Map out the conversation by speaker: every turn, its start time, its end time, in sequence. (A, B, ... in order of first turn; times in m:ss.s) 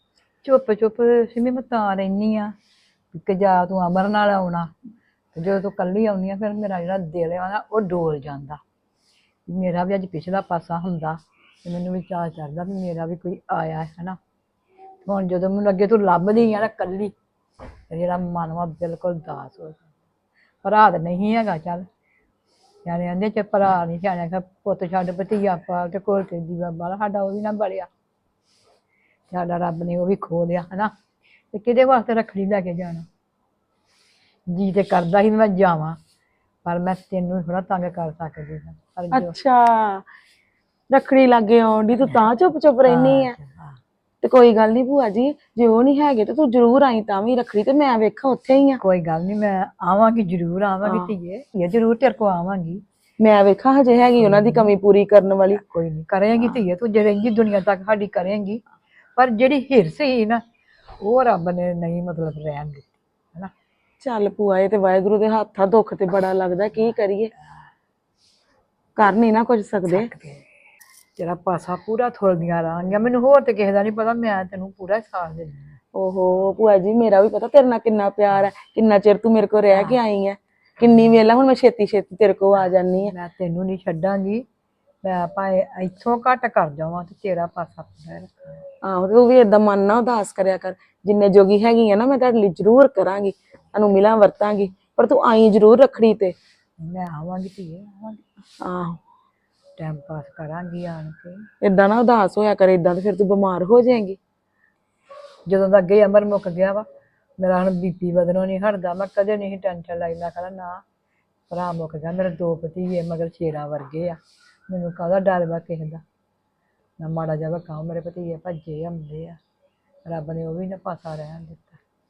0:00.4-0:02.5 A
0:03.1-0:04.7 A
0:05.3-0:08.6 A
0:09.5-0:14.2 A
0:15.0-0:17.1 A
0:17.9-0:19.8 A
0:20.6-0:21.8 A
0:22.8-0:27.9 A
0:29.3-0:30.9 A
0:31.5-0:33.1 A
0:34.5-0:36.0 A
0:36.6-0:39.4 A
0:39.1-0:40.0 B
0:40.9-0:43.4 B
0:42.8-0:43.8 A
0:44.2-0:48.8 B
0:48.8-0:52.8 A
0:53.2-0:55.6 B
0:54.2-0:54.7 A
0:55.5-0:58.6 A
0:59.2-1:00.4 A
1:01.0-1:03.5 A
1:04.0-1:07.3 B
1:09.0-1:10.1 B
1:09.9-1:10.4 A
1:11.2-1:15.7 A
1:15.9-1:23.1 B
1:19.7-1:20.0 A
1:23.1-1:24.4 A
1:25.0-1:28.6 A
1:28.8-1:36.3 B
1:36.8-1:38.3 A
1:38.6-1:39.0 B
1:39.8-1:41.5 A
1:41.6-1:44.2 B
1:45.5-1:46.8 A
1:47.4-1:50.8 A
1:51.5-1:56.0 A
1:57.0-1:59.4 A
2:00.0-2:01.8 A